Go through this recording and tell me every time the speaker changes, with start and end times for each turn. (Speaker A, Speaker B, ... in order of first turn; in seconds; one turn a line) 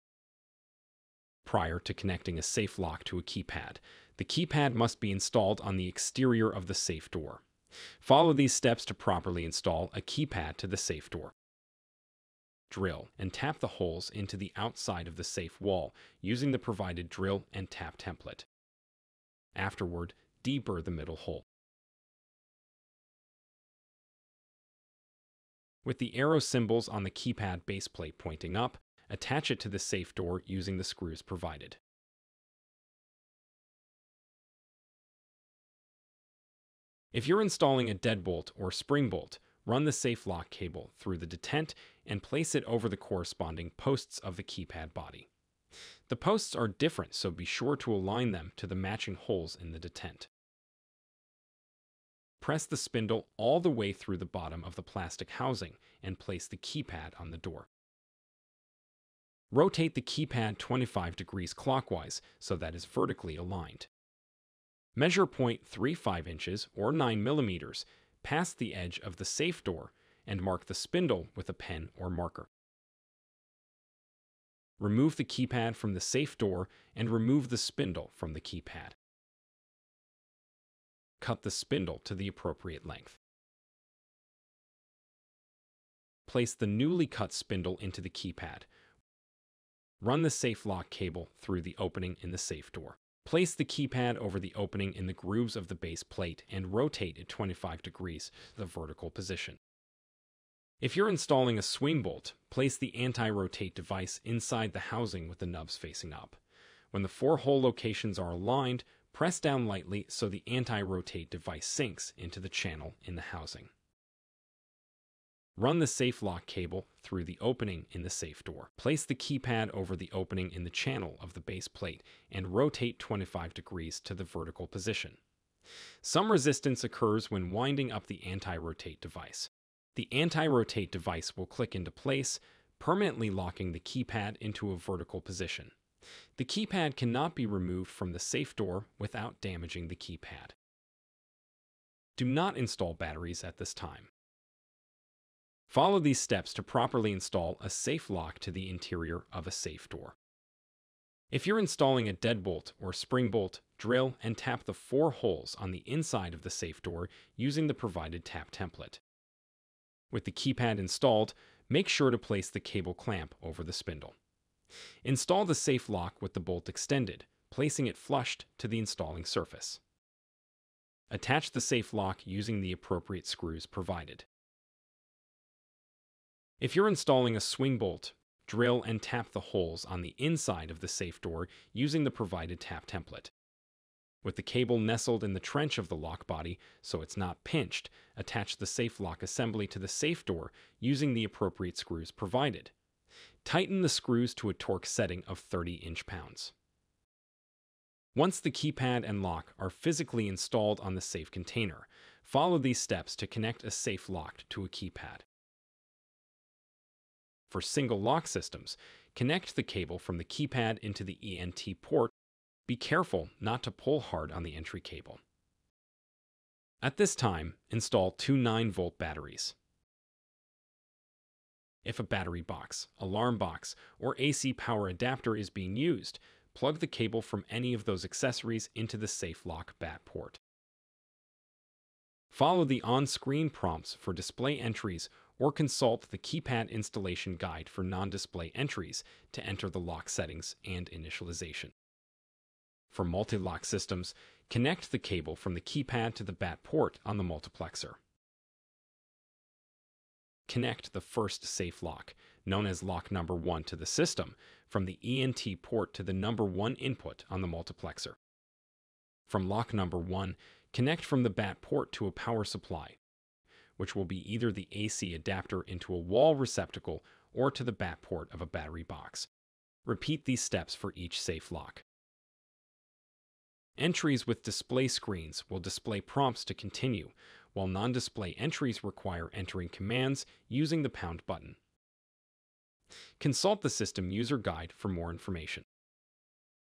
Speaker A: 1.4-7.4
Speaker A: 8.0-11.3
Speaker A: 12.7-18.5
Speaker A: 19.6-21.4
Speaker A: 25.9-31.8
Speaker A: 37.1-45.3
Speaker A: 46.1-50.3
Speaker A: 52.4-57.7
Speaker A: 59.5-63.9
Speaker A: 65.0-72.5
Speaker A: 74.8-79.0
Speaker A: 81.2-83.2
Speaker A: 86.3-88.7
Speaker A: 90.0-99.6
Speaker A: 100.8-106.4
Speaker A: 106.9-113.7
Speaker A: 115.6-125.2
Speaker A: 126.0-135.7
Speaker A: 136.4-140.6
Speaker A: 142.2-144.1
Speaker A: 145.7-150.2
Speaker A: 151.3-159.0
Speaker A: 160.1-164.2
Speaker A: 165.0-169.8
Speaker A: 171.1-174.3
Speaker A: 176.6-183.3
Speaker A: 184.2-192.7
Speaker A: 193.4-196.5
Speaker A: 198.2-205.3
Speaker A: 207.5-212.1
Speaker A: 212.7-215.2
Speaker A: 216.8-219.6
Speaker A: 221.8-230.4
Speaker A: 232.3-241.7
Speaker A: 242.9-248.0
Speaker A: 250.5-258.2
Speaker A: 259.3-263.0
Speaker A: 263.8-269.3
Speaker A: 269.9-271.8
Speaker A: 273.8-281.6
Speaker A: 283.2-285.7